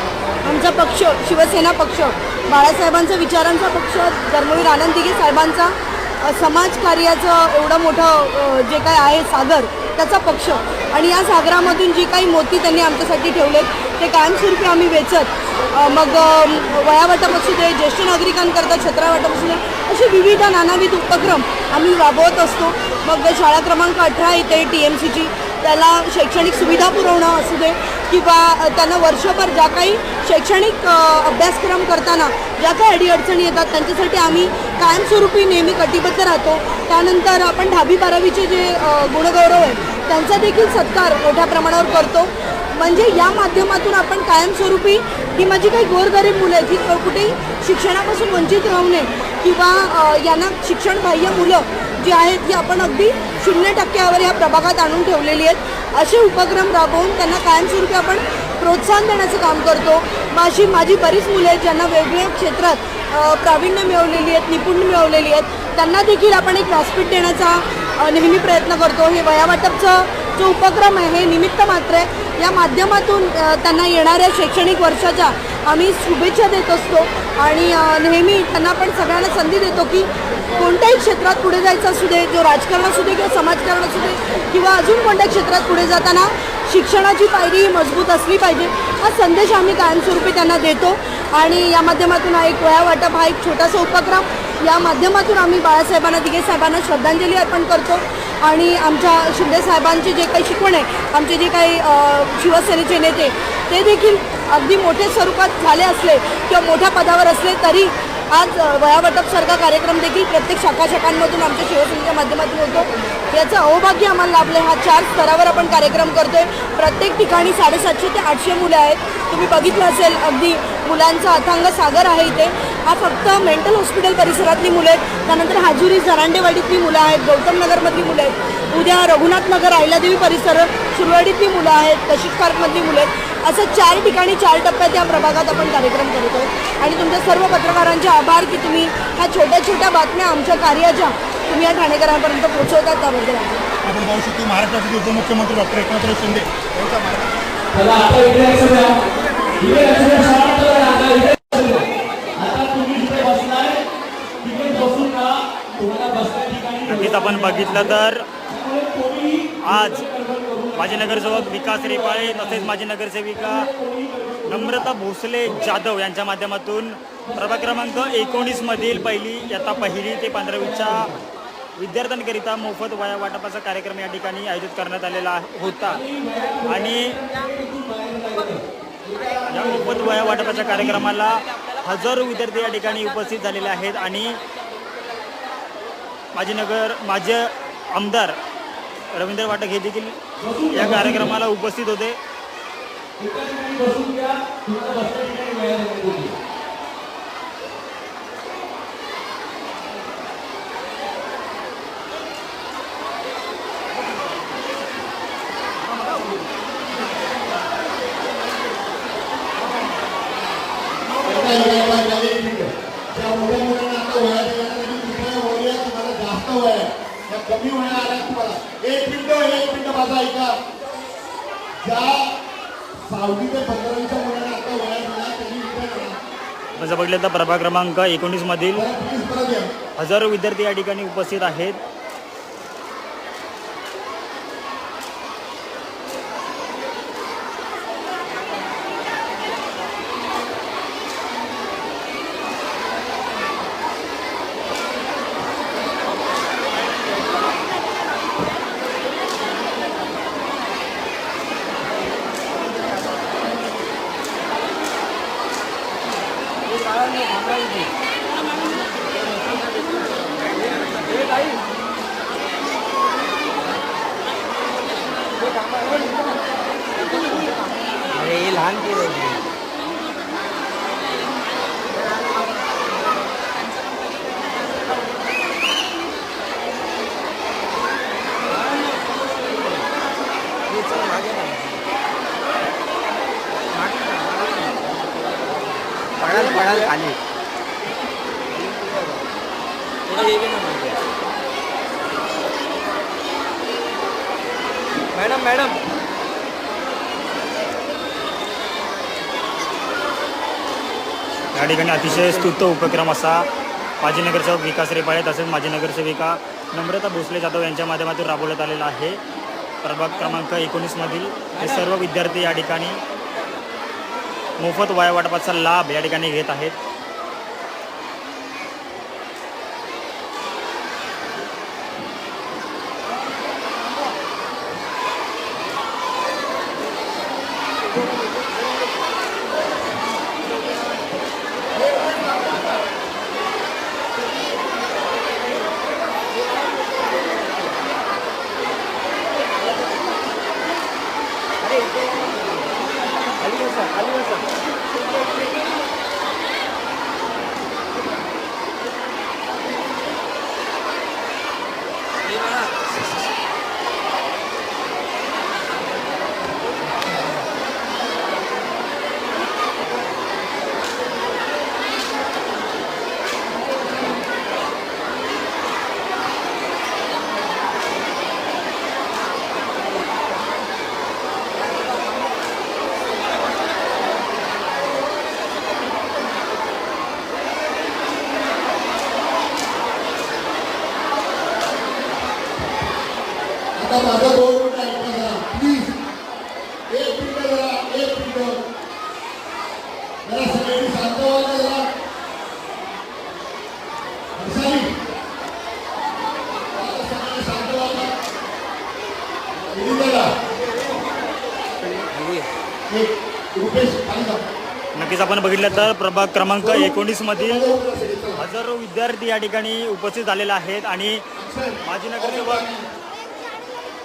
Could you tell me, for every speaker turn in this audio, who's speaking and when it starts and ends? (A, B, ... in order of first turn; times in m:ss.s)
0:00.4-2:23.7 A
2:23.8-2:27.3 B
2:27.7-2:29.0 C
2:29.6-2:33.8 C
2:34.4-2:42.8 C
2:36.9-2:38.3 D
2:39.6-2:40.0 D
2:40.8-2:43.7 D
2:43.3-2:45.7 C
2:44.5-2:51.1 D
2:47.2-2:51.2 C
2:51.8-2:56.0 D
2:55.8-3:01.2 C
2:56.7-2:57.2 D
2:59.5-3:04.4 D
3:06.4-3:08.4 D
3:09.1-3:10.2 D
3:10.4-3:11.3 C
3:10.7-3:12.2 D
3:13.2-3:16.4 C
3:31.1-3:40.6 E
3:41.8-3:42.3 E
3:43.0-3:46.2 E
3:46.8-3:48.8 D
3:48.7-3:49.7 E
3:50.0-3:51.8 D
4:16.7-4:17.8 F
4:17.2-4:17.6 G
4:19.3-4:21.6 F
4:20.4-4:21.1 G
4:25.4-4:26.1 F
4:27.2-4:27.4 F
4:28.1-4:29.4 G
4:38.5-4:38.9 F
4:38.5-4:38.8 G
4:40.7-4:41.8 G
4:43.7-4:45.0 G
4:45.6-4:47.2 G
4:46.2-4:46.9 F
4:48.5-4:49.2 G
4:50.1-4:51.0 G
4:55.2-4:55.8 G
5:01.6-5:03.4 D
5:04.0-5:09.2 D
5:09.8-5:13.0 D
5:10.1-5:10.4 F
5:11.5-5:11.9 F
5:14.6-5:16.8 D
5:43.3-5:44.4 F
5:52.3-5:52.7 F
6:23.8-6:26.0 E
6:26.9-6:28.6 E
6:30.2-6:31.9 E
6:34.4-6:34.9 E
6:36.7-6:38.1 E
6:39.7-6:40.3 E
6:41.8-6:42.5 G
6:42.9-6:44.4 E
6:45.0-6:47.7 D
6:46.6-6:48.4 E
6:48.4-6:51.2 D
6:51.4-6:52.9 E
6:51.8-6:52.7 D